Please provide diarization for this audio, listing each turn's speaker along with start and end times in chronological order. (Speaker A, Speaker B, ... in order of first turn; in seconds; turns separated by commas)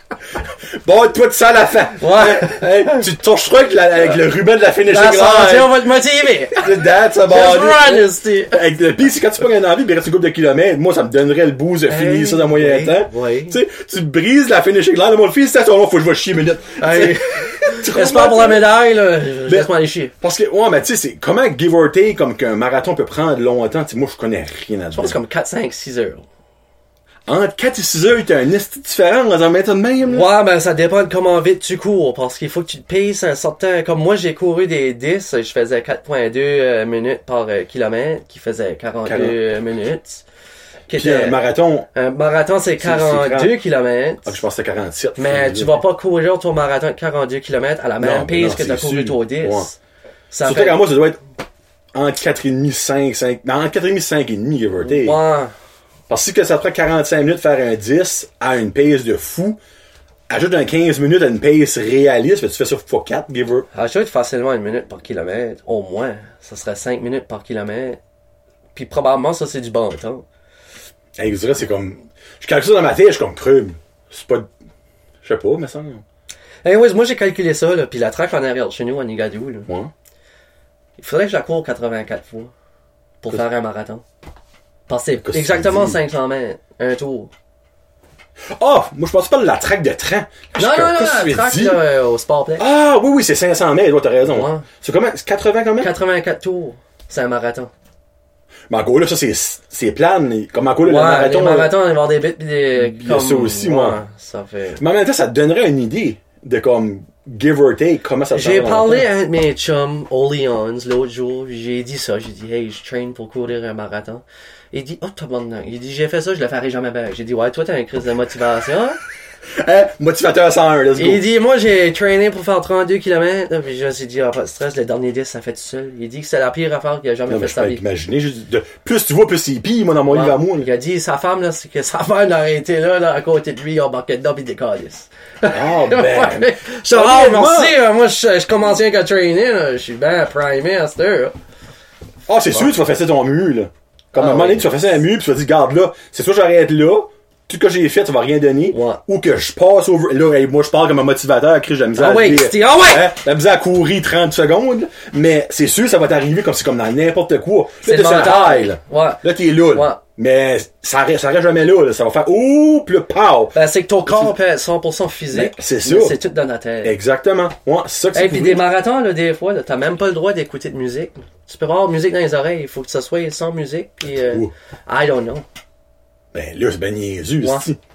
Speaker A: 0.7-5.8, Speaker B: 2.0-3.1, Speaker B: 4.9-8.6, Speaker A: 6.5-18.7, Speaker B: 11.8-13.6, Speaker B: 16.8-20.1, Speaker A: 19.4-25.2, Speaker B: 24.9-26.2, Speaker A: 27.2-30.3, Speaker B: 30.1-40.2, Speaker A: 39.0-39.4, Speaker B: 40.9-41.4, Speaker A: 40.9-41.9, Speaker B: 41.9-44.4, Speaker A: 42.8-43.6, Speaker A: 44.2-45.8, Speaker B: 45.2-49.7, Speaker A: 48.0-49.7, Speaker B: 50.3-50.8, Speaker A: 50.4-51.2, Speaker A: 51.9-55.2, Speaker B: 54.8-55.5, Speaker A: 56.1-59.6, Speaker A: 60.3-63.7, Speaker B: 63.7-68.0, Speaker B: 68.7-70.2, Speaker A: 71.2-74.5, Speaker A: 75.2-76.0, Speaker B: 76.6-79.7, Speaker B: 81.0-82.5, Speaker B: 83.2-84.0, Speaker B: 84.9-87.3, Speaker A: 85.2-86.0, Speaker A: 88.5-91.8, Speaker B: 90.6-92.7, Speaker A: 92.6-95.9, Speaker B: 94.2-94.7, Speaker B: 95.8-97.7, Speaker A: 98.7-101.8, Speaker B: 100.8-104.8, Speaker A: 102.7-104.0, Speaker A: 104.8-109.1, Speaker B: 108.3-119.0, Speaker A: 119.5-121.2, Speaker B: 121.0-127.8, Speaker A: 127.3-130.7, Speaker B: 130.1-141.3, Speaker A: 135.5-137.8, Speaker A: 142.3-163.5, Speaker B: 144.1-144.7, Speaker B: 148.7-149.0, Speaker B: 151.9-153.1, Speaker B: 157.8-160.0, Speaker B: 163.5-166.9, Speaker A: 164.1-164.3, Speaker A: 165.3-166.2, Speaker A: 166.8-168.7, Speaker B: 168.1-175.4, Speaker A: 174.1-174.5, Speaker A: 176.3-177.8